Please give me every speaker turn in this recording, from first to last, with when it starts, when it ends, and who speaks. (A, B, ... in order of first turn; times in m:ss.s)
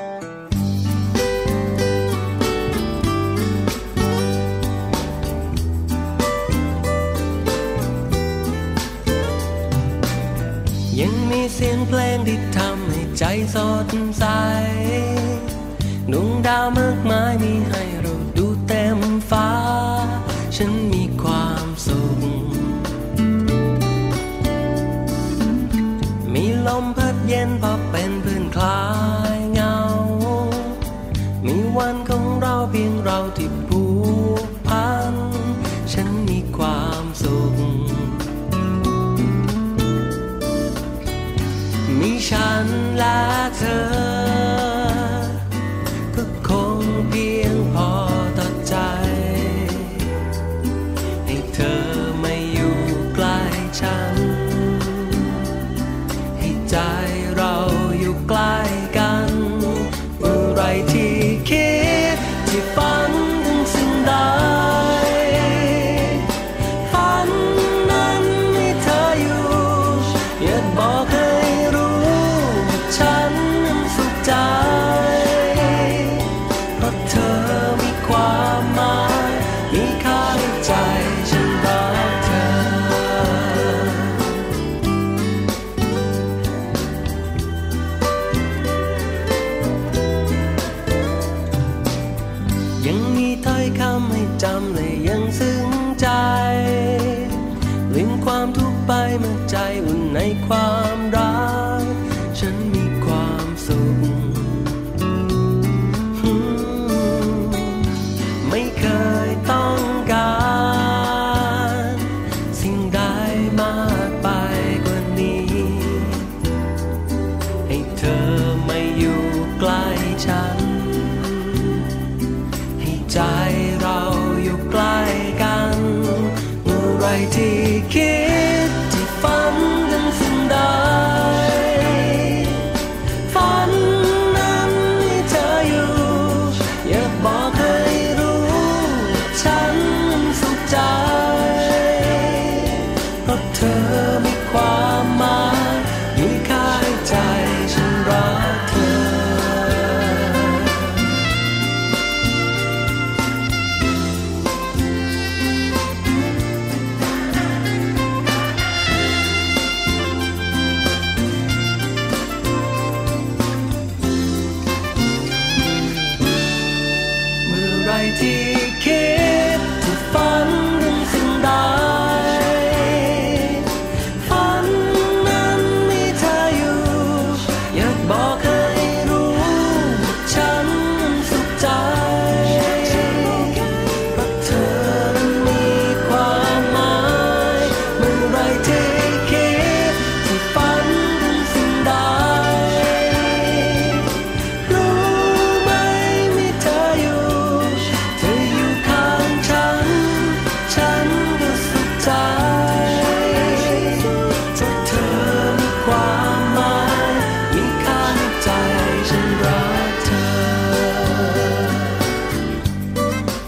0:10.9-0:15.5 A
0:16.1-0:22.9 A
0:26.2-0:30.8 A
0:31.4-0:38.3 A
0:41.9-0:45.3 A
0:46.1-0:50.1 A
0:51.2-0:55.3 A
0:56.4-1:06.3 A
1:06.8-1:24.3 A
1:32.8-1:44.8 A
1:46.2-1:47.9 A
1:48.4-1:56.3 A
1:57.7-2:01.8 A
2:02.8-2:12.7 A
2:13.3-2:30.9 A
2:47.4-3:31.8 A